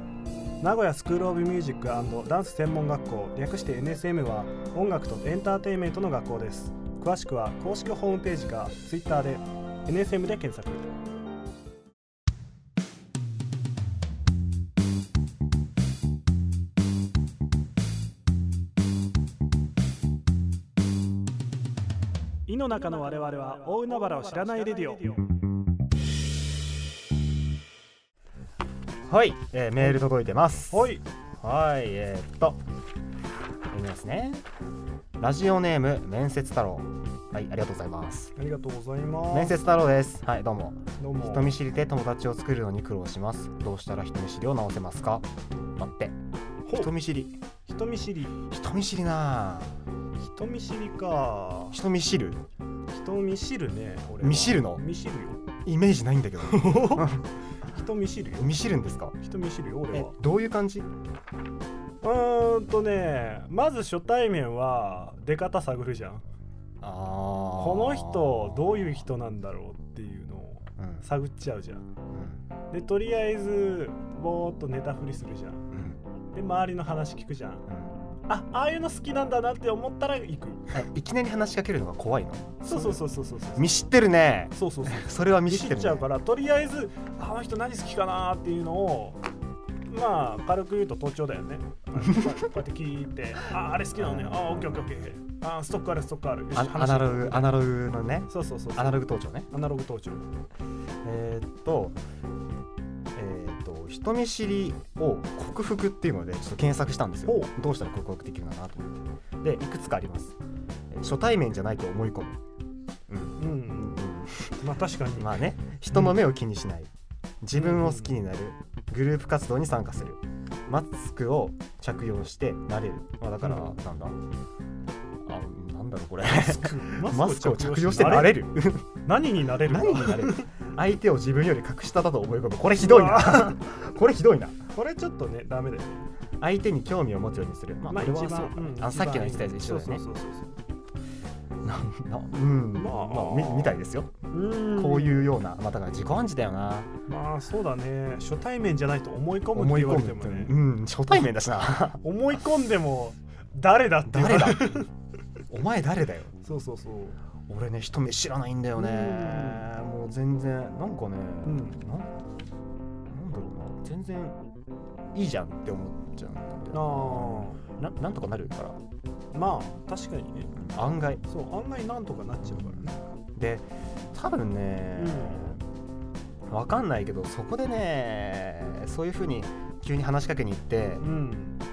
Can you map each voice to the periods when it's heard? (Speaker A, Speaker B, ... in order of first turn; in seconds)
Speaker A: 0.6-10.9, 22.5-25.3, 30.7-31.0, 38.4-39.5, 41.0-41.6, 46.6-46.9, 47.7-48.4, 50.2-51.8, 52.9-55.5, 56.4-57.1, 57.6-58.6, 59.2-60.1, 62.0-66.2, 67.6-71.8, 72.7-75.7, 76.3-77.6, 78.3-80.7, 82.7-83.7, 84.5-89.2, 89.8-97.6, 98.3-100.2, 107.2-107.5, 113.4-114.0, 114.6-115.4, 117.5-118.2, 123.4-123.8, 126.4-128.5, 129.0-130.5, 132.8-133.6, 134.7-136.1, 137.9-140.6, 142.8-143.8, 144.3-145.3, 147.1-150.5, 152.0-154.9, 156.4-157.2, 158.8-159.7, 161.4-161.8, 166.7-167.6, 169.3-170.7, 171.2-173.0, 175.0-175.6, 181.0-181.6
Speaker B: 29.1-32.6, 33.7-34.4, 35.2-38.3, 39.3-46.2, 46.7-47.4, 48.5-49.8, 51.7-52.4, 54.2-54.8, 55.6-57.2, 58.4-59.1, 59.9-60.9, 66.8-69.0, 70.8-71.0, 72.1-72.4, 75.7-76.0, 77.7-78.2, 80.7-83.0, 83.5-86.1, 93.9-95.0, 96.5-99.5, 101.0-102.0, 103.1-110.4, 110.9-112.4, 113.1-114.6, 115.2-116.9, 117.4-124.2, 125.2-128.9, 129.6-134.6, 136.4-140.0, 141.6-144.1, 144.7-146.9, 149.5-152.4, 154.1-154.7, 155.5-156.3, 157.5-162.1, 163.1-164.4, 165.1-168.8, 170.6-171.2, 172.5-172.8, 173.3-175.6, 176.5-181.1